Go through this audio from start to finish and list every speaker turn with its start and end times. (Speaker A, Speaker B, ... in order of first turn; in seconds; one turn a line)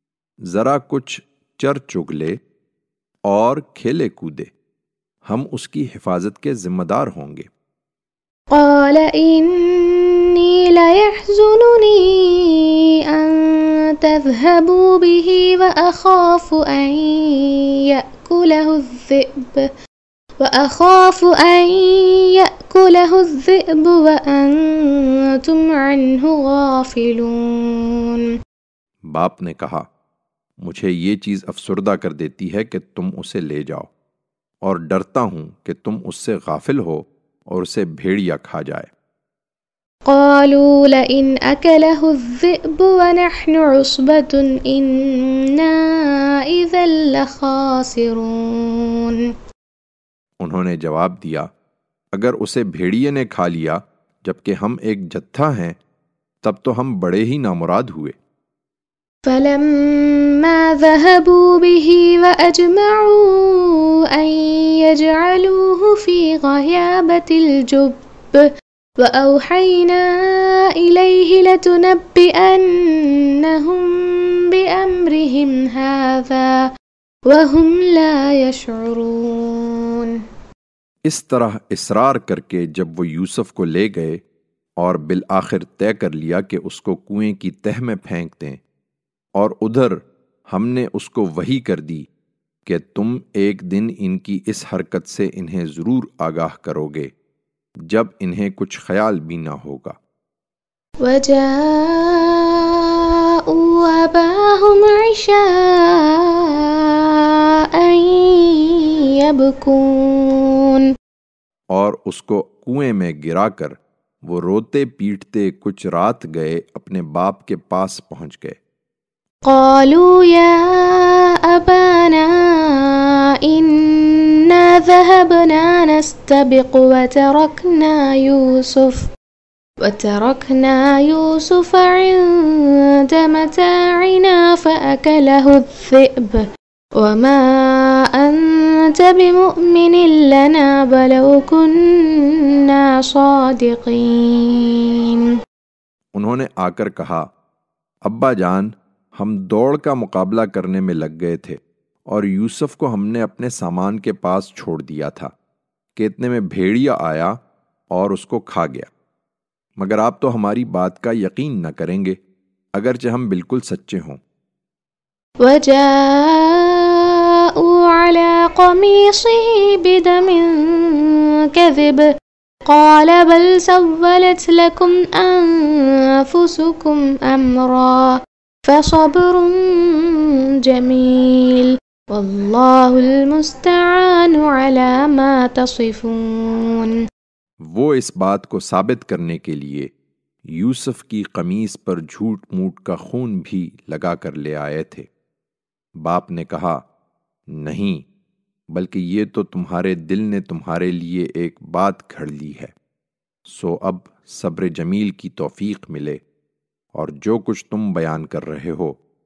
Speaker A: 0.5-2.4
Speaker A: 3.3-4.5
Speaker A: 5.3-7.5
Speaker B: 8.5-19.6
Speaker B: 20.4-28.2
Speaker A: 29.1-29.9
Speaker A: 30.6-33.9
Speaker A: 34.6-38.9
Speaker B: 40.1-44.9
Speaker B: 46.5-49.2
Speaker A: 50.4-51.5
Speaker A: 52.1-55.8
Speaker A: 56.4-58.2
Speaker B: 59.3-68.4
Speaker B: 69.0-70.1
Speaker B: 70.8-73.9
Speaker B: 74.5-76.5
Speaker B: 77.3-80.1
Speaker A: 81.1-84.2
Speaker A: 84.8-88.6
Speaker A: 89.4-92.1
Speaker A: 92.7-97.1
Speaker A: 97.9-100.0
Speaker B: 101.0-102.4
Speaker B: 103.5-106.1
Speaker B: 107.8-110.8
Speaker A: 111.7-118.6
Speaker B: 119.5-122.3
Speaker B: 123.5-129.0
Speaker B: 129.8-136.4
Speaker B: 137.0-145.2
Speaker A: 146.2-147.3
Speaker A: 148.1-155.3
Speaker A: 155.9-157.4
Speaker A: 157.9-158.9
Speaker A: 159.8-162.2
Speaker A: 162.8-164.2
Speaker B: 165.4-166.8
Speaker B: 167.7-172.1
Speaker B: 172.7-178.2
Speaker B: 178.7-186.9
Speaker A: 187.6-189.9
Speaker A: 190.5-195.1
Speaker A: 196.0-196.8
Speaker A: 197.6-198.1
Speaker A: 198.7-202.8
Speaker A: 203.5-206.2
Speaker A: 206.9-209.0